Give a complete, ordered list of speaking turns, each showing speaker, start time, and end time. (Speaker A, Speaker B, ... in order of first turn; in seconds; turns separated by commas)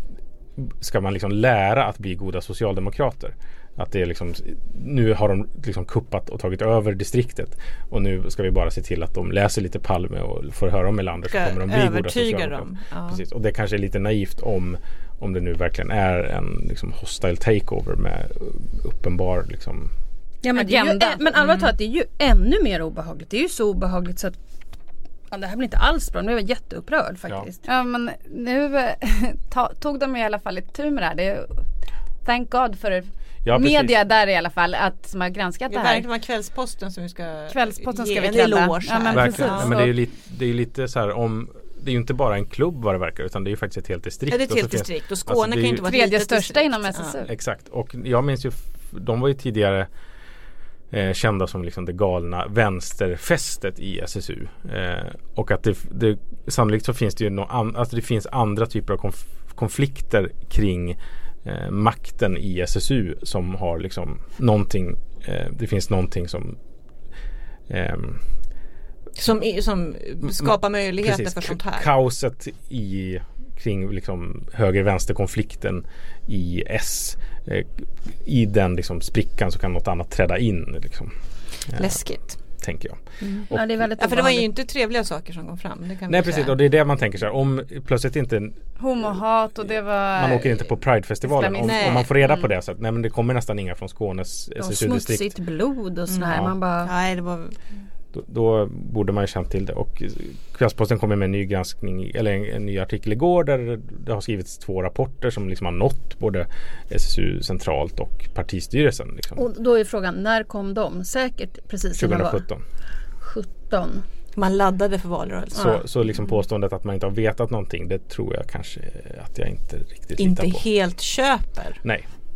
Speaker A: 0.6-19.9, Speaker B: 11.3-13.2, Speaker C: 20.4-24.4, Speaker D: 20.6-21.2, Speaker B: 21.4-21.7, Speaker C: 25.3-27.6, Speaker D: 27.6-31.6, Speaker D: 32.2-36.1, Speaker A: 33.5-34.0, Speaker B: 35.7-39.8, Speaker D: 37.5-39.9, Speaker A: 39.1-45.9, Speaker B: 44.3-47.2, Speaker D: 45.8-47.3, Speaker A: 47.3-49.9, Speaker A: 50.9-66.6, Speaker A: 67.7-68.2, Speaker B: 69.2-71.9, Speaker A: 70.2-81.1, Speaker A: 81.7-83.8, Speaker B: 81.7-82.4, Speaker C: 83.5-84.5, Speaker B: 84.0-86.6, Speaker A: 86.1-88.6, Speaker D: 88.8-90.7, Speaker A: 90.1-95.3, Speaker D: 91.2-92.1, Speaker B: 91.6-92.4, Speaker C: 94.6-96.9, Speaker B: 96.1-97.6, Speaker A: 98.1-109.4, Speaker C: 109.4-112.5, Speaker A: 112.0-112.6, Speaker C: 113.2-114.0, Speaker B: 114.3-115.8, Speaker A: 115.5-120.6, Speaker B: 120.2-121.8